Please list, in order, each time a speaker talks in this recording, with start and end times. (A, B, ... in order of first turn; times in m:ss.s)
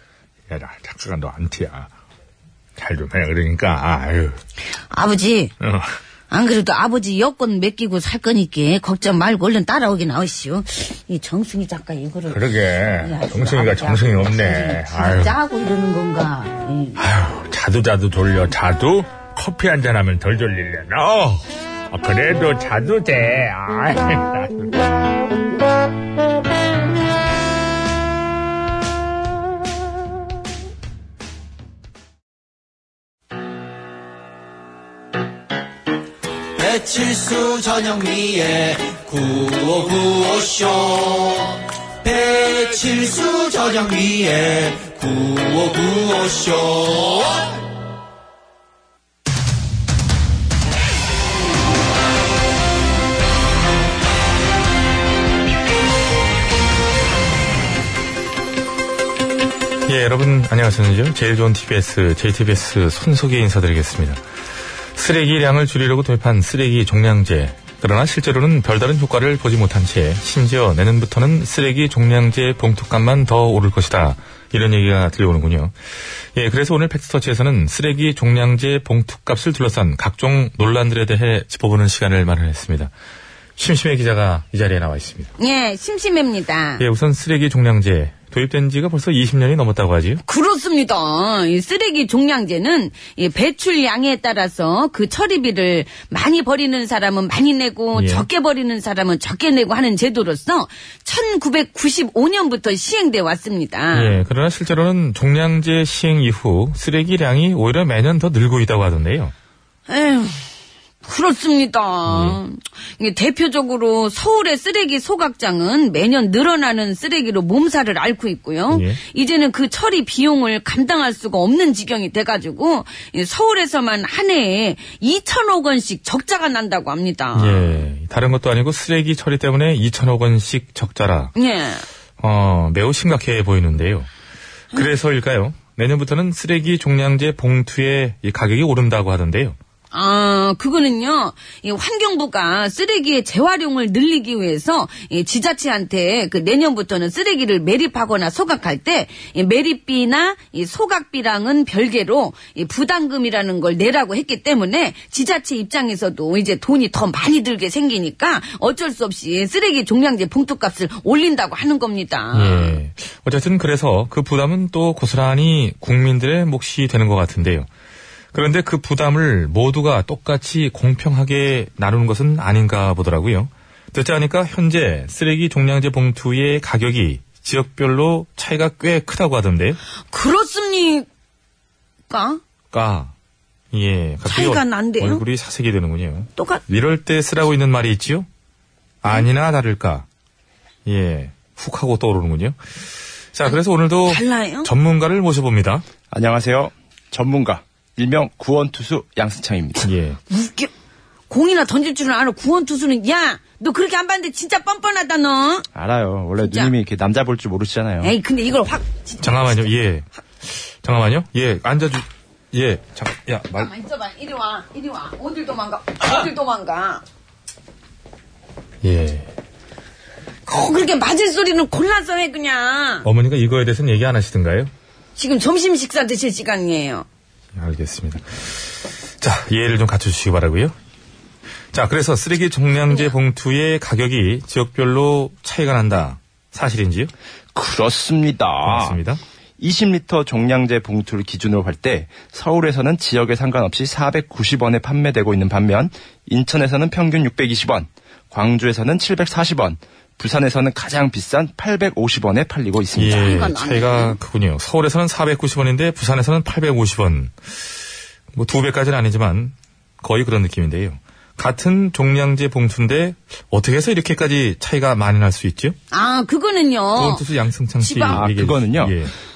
0:00.5-0:01.9 A
0:02.8-0:04.4 A
0:04.9-0:05.5 B
0:05.6-0:05.9 A
0:06.3-0:17.0 B
0:12.3-0:15.4 A
0:17.0-0:24.7 A
0:36.6-0:47.4 C
0:59.8-1:04.2 A
1:04.9-1:15.8 A
1:16.3-1:22.9 A
1:23.6-1:25.3 A
1:25.4-1:26.8 B
1:26.8-1:30.2 A
1:30.3-1:44.1 D
1:34.0-1:34.7 B
1:35.8-1:40.2 B
1:37.9-1:38.3 A
1:43.3-1:43.7 B
1:43.9-1:49.3 A
1:49.9-1:50.2 B
1:51.0-2:07.6 D
1:52.0-1:52.4 A
1:58.7-1:59.0 A
2:07.3-2:11.3 A
2:11.4-2:11.8 D
2:12.2-2:14.1 A
2:14.7-2:19.6 A
2:19.9-2:42.7 D
2:21.3-2:21.6 B
2:24.7-2:25.5 B
2:26.0-2:26.6 B
2:28.3-2:29.3 B
2:32.3-2:33.4 B
2:42.3-2:47.7 A
2:48.3-2:59.8 A
3:00.1-3:01.0 D
3:02.1-3:02.4 D
3:02.1-3:02.4 B
3:02.7-3:03.1 A
3:03.7-3:08.3 A
3:04.4-3:05.1 B
3:04.4-3:05.2 D
3:09.0-3:10.0 A
3:10.8-3:12.6 A
3:13.3-3:15.8 A
3:14.1-3:14.6 D
3:16.1-3:19.9 E
3:19.8-3:20.2 A
3:21.3-3:25.6 D
3:25.7-3:28.1 E
3:28.0-3:28.8 D
3:28.0-3:29.1 B
3:29.2-3:33.7 A
3:33.6-3:37.0 D
3:38.8-3:39.3 A
3:40.5-3:40.7 B
3:40.5-3:43.0 D
3:43.0-3:44.7 A
3:45.2-3:47.0 D
3:47.5-3:50.7 A
3:51.7-3:57.1 A
3:57.5-3:59.0 E
3:58.6-3:59.2 A
3:59.6-4:13.2 E
4:13.0-4:17.7 A
4:13.0-4:14.2 B
4:18.3-4:25.8 A
4:25.9-4:27.2 B
4:26.9-4:29.1 A
4:27.8-4:28.2 B
4:28.1-4:28.9 E